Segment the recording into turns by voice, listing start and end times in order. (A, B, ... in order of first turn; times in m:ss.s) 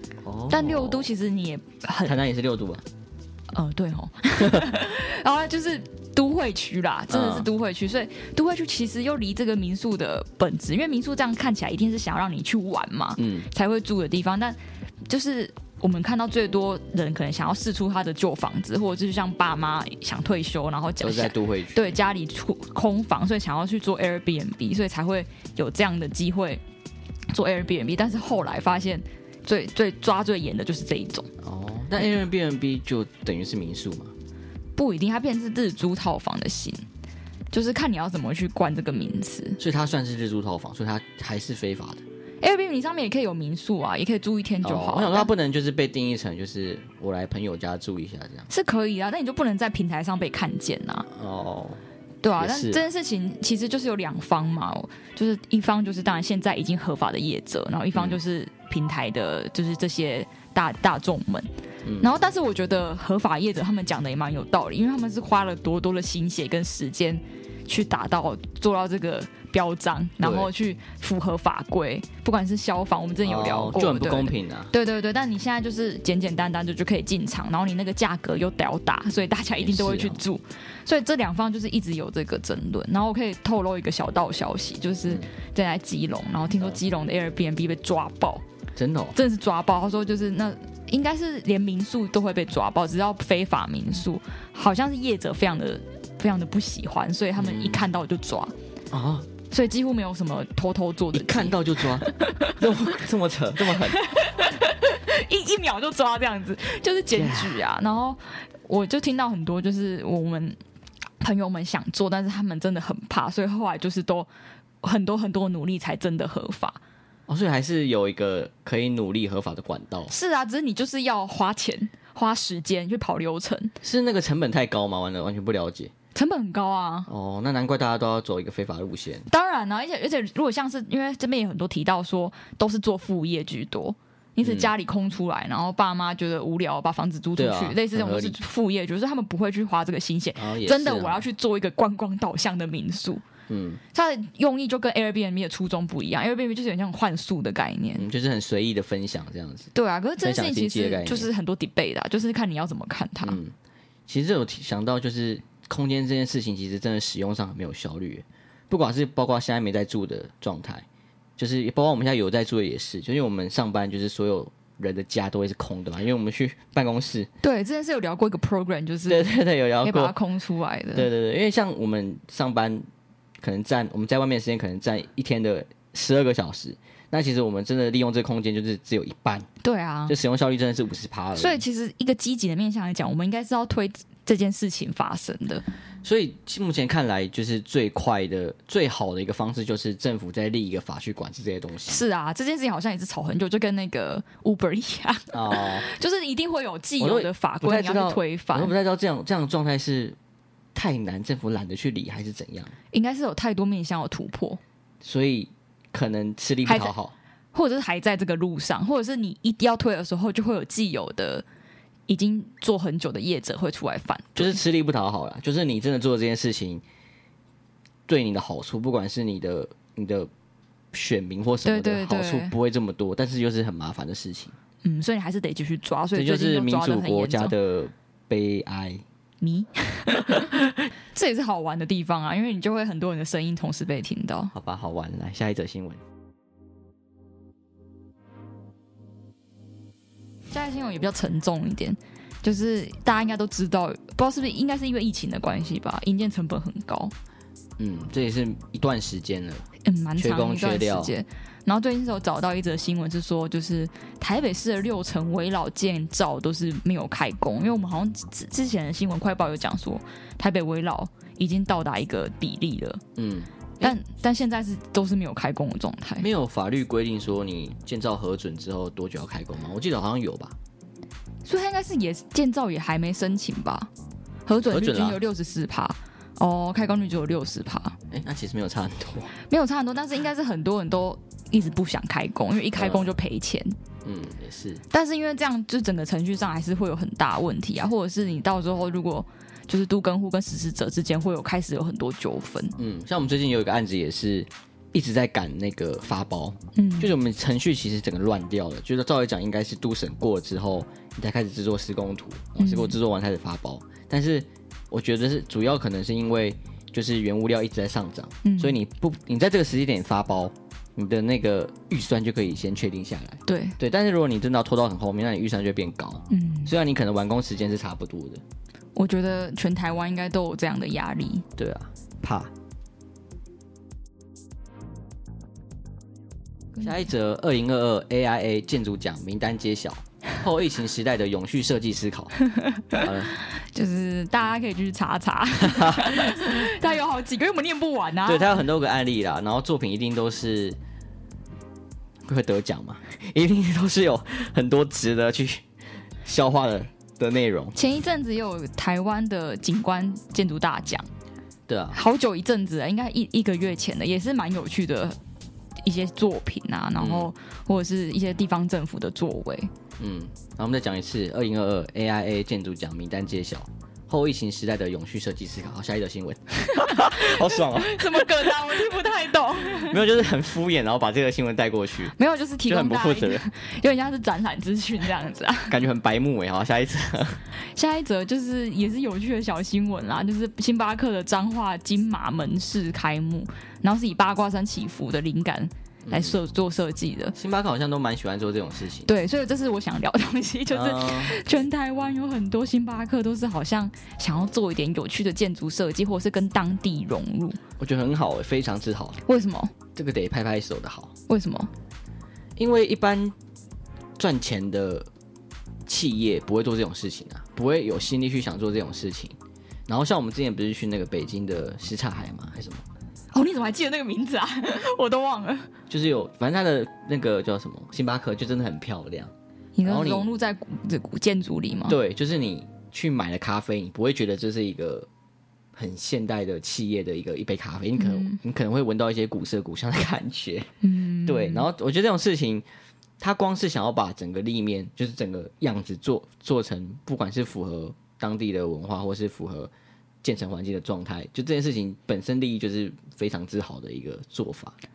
0:00.2-0:01.1 A
0:00.5-0:02.1 B
0:02.0-0:02.8 A
0:03.5-0:26.6 B
0:07.1-0:07.5 A
0:13.2-0:13.5 A
0:21.0-0:22.0 A
0:27.3-0:31.3 B
0:31.4-0:34.1 A
0:34.8-0:36.8 B
0:37.5-0:39.6 B
0:39.6-0:42.0 A
0:42.4-0:45.3 B
0:44.6-0:48.5 A
0:48.5-0:51.1 B
0:51.1-0:51.8 A
0:52.2-1:01.5 B
0:52.4-0:52.8 A
0:57.9-0:58.2 A
1:01.8-1:02.1 A
1:02.0-1:28.4 B
1:10.2-1:10.5 A
1:13.2-1:14.7 A
1:19.6-1:20.2 A
1:25.0-1:25.3 A
1:28.8-1:29.2 A
1:29.1-1:38.5 B
1:37.4-1:37.9 A
1:38.9-1:39.3 A
1:39.5-1:42.8 B
1:41.1-1:44.1 A
1:43.6-1:50.6 B
1:47.1-1:47.6 A
1:51.2-1:54.3 B
1:54.8-1:56.8 B
1:57.3-2:00.1 A
2:00.1-2:03.7 B
2:03.8-2:05.9 A
2:06.1-2:07.1 B
2:07.1-2:09.3 A
2:09.3-2:23.2 B
2:14.4-2:14.7 A
2:17.4-2:18.4 A
2:20.4-2:21.2 A
2:23.5-2:23.8 A
2:23.9-2:28.1 B
2:28.0-2:29.7 A
2:29.7-2:33.4 B
2:30.2-2:31.3 A
2:33.2-2:33.5 A
2:34.1-2:40.8 A
2:41.4-2:47.3 A
2:47.4-2:51.1 B
2:49.1-2:50.1 A
2:50.9-2:52.8 A
2:53.4-2:59.5 A
2:59.6-3:00.1 B
3:00.1-3:01.6 A
3:01.4-3:05.6 B
3:06.0-3:12.0 A
3:11.9-3:18.7 B
3:15.3-3:15.9 A
3:17.0-3:20.2 A
3:20.7-3:22.7 A
3:22.9-3:24.6 B
3:25.0-3:27.1 A
3:26.6-3:26.9 B
3:27.5-3:31.4 B
3:32.1-3:34.6 B
3:34.4-3:36.8 A
3:38.1-3:40.3 A
3:40.9-3:44.5 A
3:41.6-3:42.5 B
3:44.8-3:47.5 B
3:46.1-3:49.0 A
3:49.4-3:50.6 B
3:51.1-3:54.5 B
3:54.5-3:56.0 A
4:00.5-4:07.1 B
4:07.8-4:09.6 A
4:09.8-4:23.0 B
4:10.2-4:11.1 A
4:23.2-4:23.9 A
4:23.8-4:26.2 B
4:26.2-4:30.6 A
4:31.4-4:33.9 B
4:34.4-4:38.0 B
4:34.6-4:35.2 A
4:38.1-4:39.3 A
4:39.5-4:43.7 B
4:42.8-4:43.1 A
4:44.0-4:44.8 A
4:44.9-4:52.8 B
4:52.8-5:18.4 A
4:56.7-4:57.1 B
5:02.6-5:03.0 B
5:08.4-5:08.8 B
5:13.5-5:13.8 B
5:16.3-5:16.7 B
5:18.9-5:21.4 B
5:21.6-5:22.5 A
5:26.8-5:33.3 A
5:33.5-5:38.6 B
5:35.6-5:36.5 A
5:38.2-5:40.8 A
5:42.2-5:45.6 A
5:46.2-5:47.8 A
5:47.8-5:51.1 B
5:51.7-5:52.0 A
5:51.9-5:55.2 B
5:55.8-5:59.7 B
5:57.0-5:57.3 A
6:00.0-6:08.6 A
6:06.7-6:10.0 B
6:09.7-6:12.1 A
6:12.1-6:15.8 B
6:12.7-6:13.4 A
6:15.7-6:17.4 A
6:17.7-6:27.3 B
6:26.0-6:26.4 A
6:27.3-6:29.1 A
6:29.0-6:37.6 B
6:30.7-6:31.4 A
6:37.8-6:39.2 A
6:39.2-6:39.7 B
6:39.9-6:41.1 A
6:41.3-6:41.7 B
6:42.6-6:43.3 A
6:44.2-6:45.1 A
6:45.9-6:49.3 A
6:49.9-6:52.8 A
6:53.3-6:55.7 B
6:55.9-6:59.3 A
6:59.7-7:02.0 B
6:59.8-7:00.3 A
7:01.9-7:05.1 A
7:05.8-7:10.7 A
7:08.0-7:08.4 B
7:10.8-7:11.7 B
7:11.2-7:12.6 A
7:13.2-7:19.7 A
7:20.2-7:24.7 A